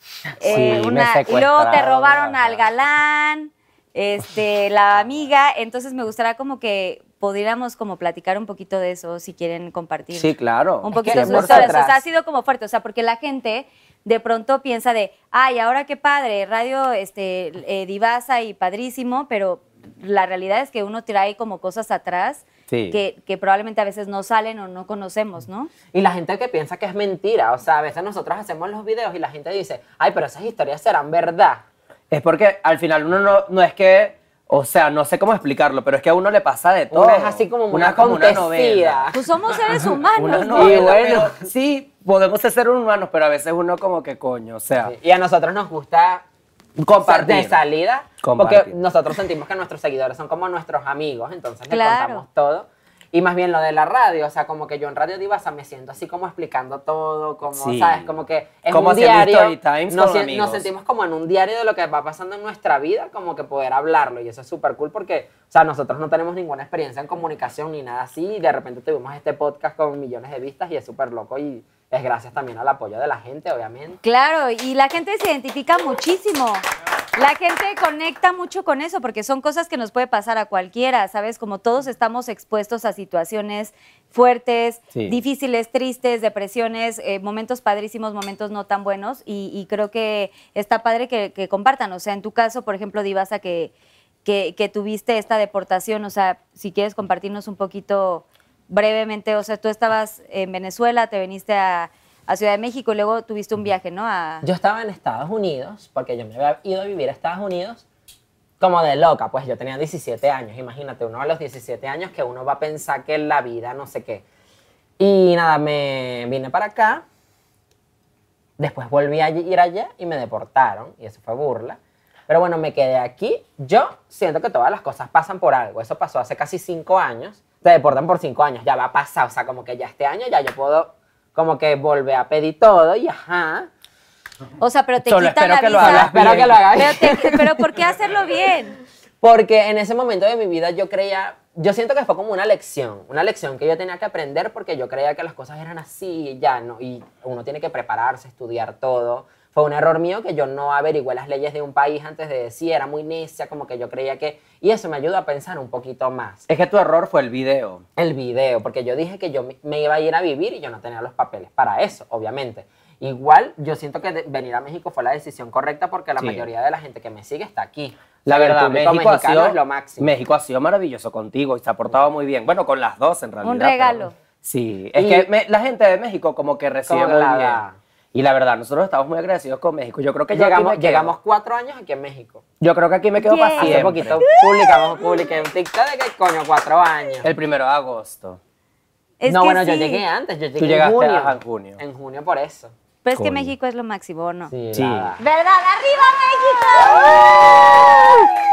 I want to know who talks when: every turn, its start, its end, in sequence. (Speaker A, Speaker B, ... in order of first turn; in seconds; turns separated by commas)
Speaker A: 0.4-10.3, Speaker B: 0.5-0.8, Speaker C: 0.5-1.9, Speaker B: 1.6-2.6, Speaker C: 10.1-11.8, Speaker A: 10.8-25.7, Speaker B: 11.0-12.0, Speaker C: 22.7-23.0, Speaker B: 25.9-31.6, Speaker C: 32.1-39.1, Speaker B: 36.9-39.2, Speaker A: 39.1-41.0, Speaker C: 40.1-44.9, Speaker B: 40.5-41.4, Speaker B: 44.8-46.2, Speaker C: 46.8-47.6, Speaker B: 47.0-74.0, Speaker C: 48.2-48.8, Speaker A: 51.7-52.2, Speaker C: 57.5-58.1, Speaker C: 58.7-60.7, Speaker A: 74.0-76.6, Speaker A: 77.2-93.7, Speaker C: 84.9-85.2, Speaker A: 94.2-104.5, Speaker B: 104.4-107.8, Speaker B: 108.6-114.2, Speaker B: 115.0-117.0, Speaker B: 118.6-133.7, Speaker A: 134.6-138.8, Speaker C: 135.1-136.6, Speaker B: 135.8-137.6, Speaker B: 139.2-156.4, Speaker C: 156.5-157.8, Speaker B: 158.0-170.1, Speaker C: 166.2-166.5, Speaker C: 168.3-177.6, Speaker A: 173.4-174.1, Speaker B: 175.0-175.3, Speaker B: 176.9-177.8, Speaker C: 178.1-181.1, Speaker B: 180.3-182.4, Speaker C: 182.6-184.2, Speaker A: 183.2-185.1, Speaker B: 183.6-187.3, Speaker C: 187.2-188.4, Speaker A: 189.2-190.0, Speaker B: 189.3-192.7, Speaker C: 190.6-191.8, Speaker A: 193.0-194.5, Speaker C: 193.1-193.5, Speaker B: 194.5-195.2, Speaker C: 194.7-195.1, Speaker A: 195.2-197.9